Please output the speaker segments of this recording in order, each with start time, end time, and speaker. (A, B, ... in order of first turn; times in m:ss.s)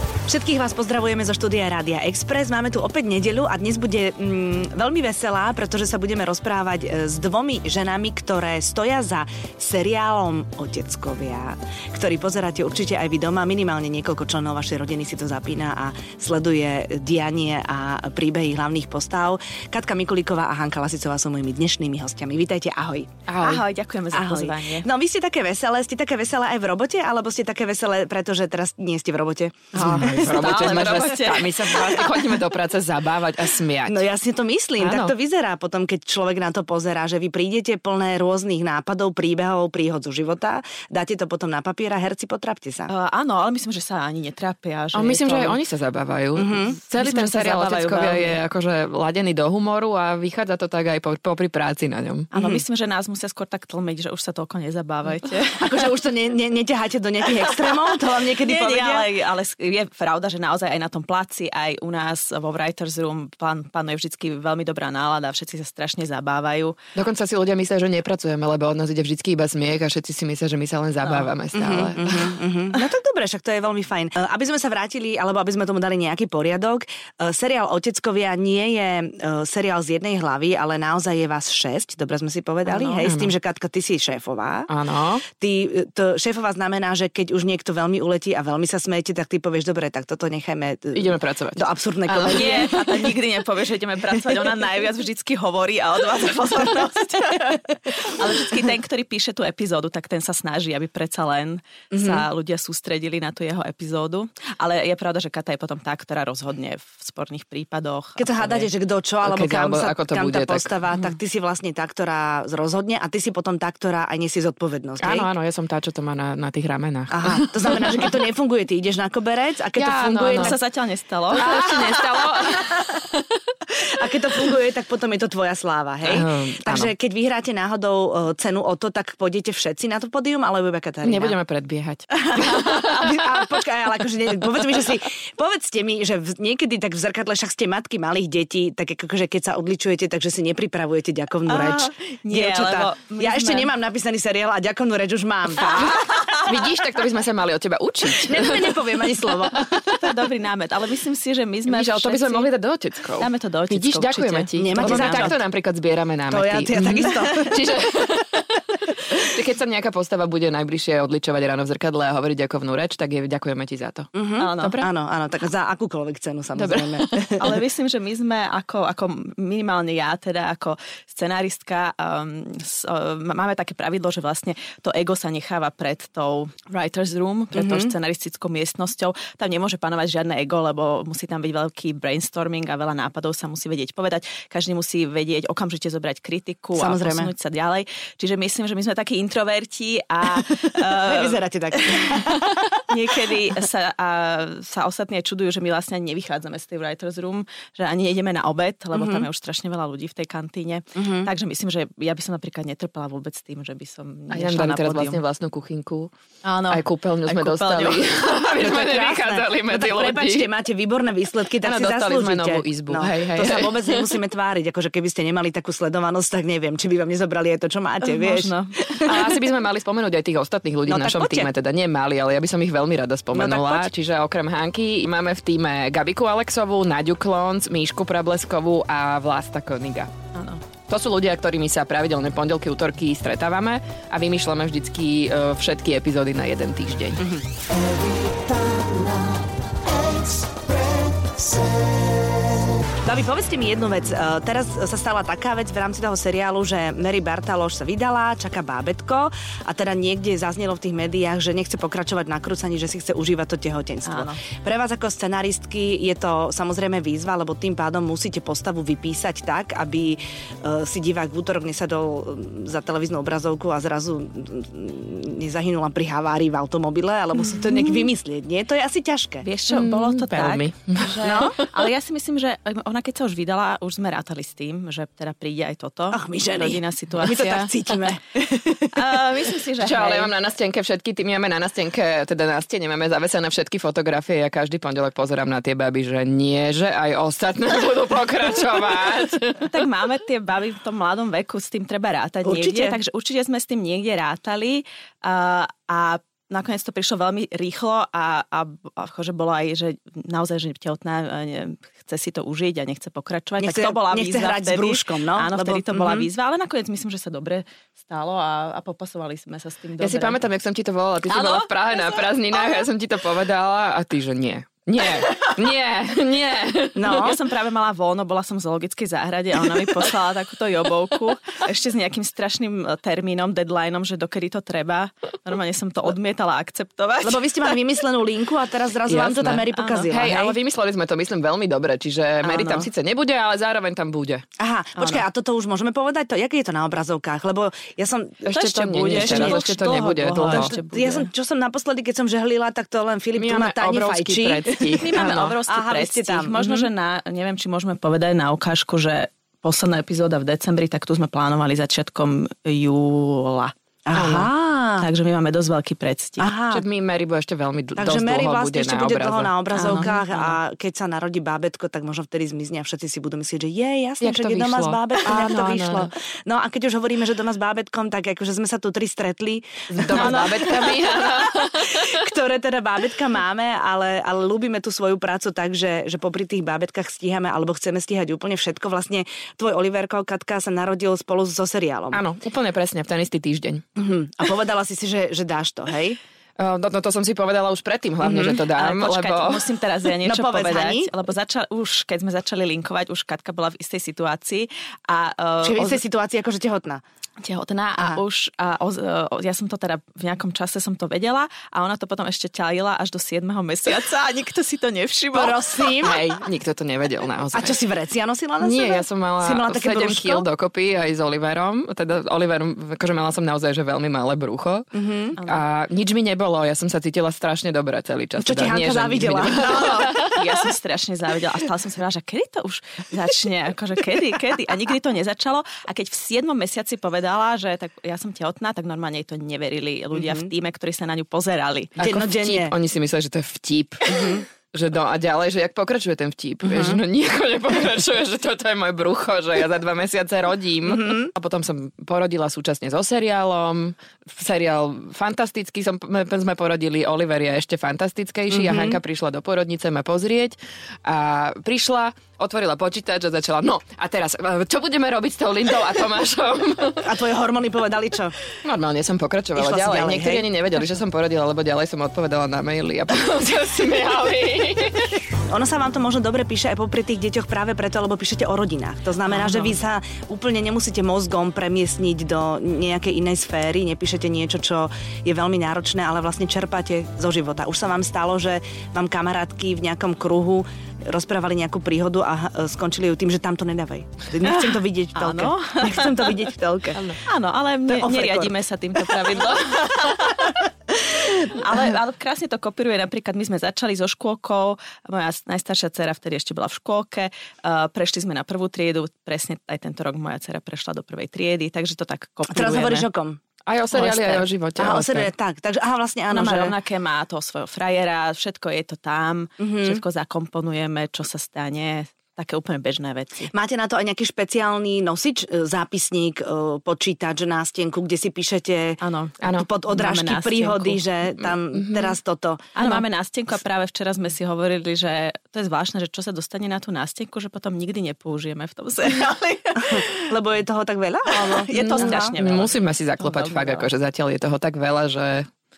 0:00.3-0:30.9 A
0:23.3-0:24.9 B
0:29.8-0:34.0 C
0:29.8-0:32.2 B
0:33.9-0:42.9 A
0:34.8-0:35.1 C
0:42.9-0:45.6 B
0:44.9-0:52.3 C
0:46.4-0:46.8 A
0:46.8-0:48.4 B
0:52.3-0:52.6 A
0:52.3-0:55.8 B
0:55.6-0:59.1 A
0:58.2-1:06.8 B
1:07.0-1:12.4 C
1:11.5-1:24.7 A
1:23.0-1:23.3 C
1:24.7-1:25.2 C
1:25.3-1:33.2 A
1:30.9-1:32.6 C
1:32.1-1:48.7 B
1:41.9-1:42.3 A
1:48.2-1:55.3 A
1:49.2-1:50.7 C
1:55.0-1:58.1 C
1:57.1-2:00.7 A
1:59.8-2:00.6 C
2:00.4-2:01.7 B
2:01.3-2:03.0 A
2:01.3-2:03.2 C
2:03.7-2:11.4 A
2:06.1-2:06.9 C
2:11.0-2:13.1 C
2:12.3-2:26.5 A
2:21.5-2:23.7 B
2:25.8-2:28.8 C
2:28.2-2:29.9 A
2:29.8-2:32.5 B
2:31.7-2:44.9 C
2:33.2-2:35.4 B
2:34.6-2:35.4 A
2:36.3-2:37.6 A
2:36.8-2:37.2 B
2:44.2-2:47.6 A
2:44.4-2:44.8 B
2:46.6-2:47.1 C
2:47.3-3:25.2 B
2:57.5-2:57.9 A
3:06.8-3:07.3 A
3:10.7-3:12.9 A
3:18.9-3:19.3 A
3:21.0-3:21.3 A
3:24.3-3:26.1 C
3:26.4-3:28.2 B
3:26.7-3:30.5 C
3:28.5-3:39.2 A
3:31.6-3:34.1 C
3:38.0-3:39.1 B
3:39.0-3:50.1 C
3:40.9-3:41.5 A
3:43.3-3:43.9 A
3:50.3-3:50.6 B
3:50.9-3:57.3 C
3:57.2-3:57.4 A
3:58.7-3:59.0 A
4:00.2-4:00.4 A
4:03.0-4:29.5 A
4:14.0-4:14.4 B
4:27.7-4:28.0 B
4:29.4-4:37.6 B
4:29.7-4:31.2 C
4:31.2-4:31.6 A
4:36.1-4:39.2 A
4:37.2-4:37.7 C
4:38.9-4:40.3 B
4:39.8-4:49.7 C
4:49.6-5:10.4 B
4:52.4-4:53.0 A
5:03.6-5:06.3 A
5:10.0-5:17.3 C
5:11.3-5:12.8 B
5:17.0-5:17.4 A
5:17.0-5:27.8 B
5:27.2-5:30.6 A
5:29.1-5:34.4 C
5:29.7-5:30.1 B
5:32.4-5:32.9 B
5:34.6-5:46.8 A
5:35.0-5:35.2 B
5:38.5-5:40.7 C
5:38.5-5:41.3 B
5:43.4-5:45.6 C
5:44.9-5:53.7 B
5:54.1-5:55.1 A
5:54.1-5:54.5 C
5:55.0-5:56.5 B
5:56.4-5:56.8 A
5:56.7-6:00.1 C
5:58.0-6:22.2 A
5:59.8-6:00.6 B
6:04.2-6:06.1 C
6:09.9-6:12.2 C
6:10.1-6:10.9 B
6:22.1-6:23.8 C
6:24.0-6:26.2 A
6:26.6-6:29.6 C
6:28.2-6:28.6 A
6:28.7-6:36.0 B
6:30.2-6:31.1 A
6:35.6-6:37.0 A
6:37.4-6:46.0 B
6:45.3-6:46.2 A
6:46.0-6:47.8 C
6:47.5-6:50.5 A
6:48.6-6:54.9 C
6:54.9-6:55.4 A
6:55.4-6:55.6 B
6:55.4-7:00.4 C
6:58.4-7:00.3 A
6:59.8-7:12.0 B
7:10.2-7:10.5 A
7:12.0-7:37.2 C
7:12.0-7:12.7 A
7:14.1-7:14.5 A
7:16.6-7:17.0 A
7:20.9-7:21.3 A
7:28.5-7:29.0 A
7:37.0-7:38.4 A
7:38.6-7:45.2 C
7:39.6-7:40.5 A
7:45.5-8:07.1 A
7:49.3-7:49.8 B
8:04.4-8:06.5 B
8:06.9-8:07.2 C
8:07.2-8:23.1 B
8:07.9-8:09.1 A
8:22.5-8:23.4 A
8:23.7-8:25.3 C
8:23.9-8:24.3 B
8:24.1-8:26.8 A
8:26.3-8:33.5 B
8:29.6-8:30.0 A
8:33.5-8:43.0 A
8:39.0-8:41.0 B
8:41.5-8:42.2 C
8:42.8-8:50.3 B
8:49.8-8:52.3 A
8:51.3-8:53.9 B
8:51.7-8:55.5 C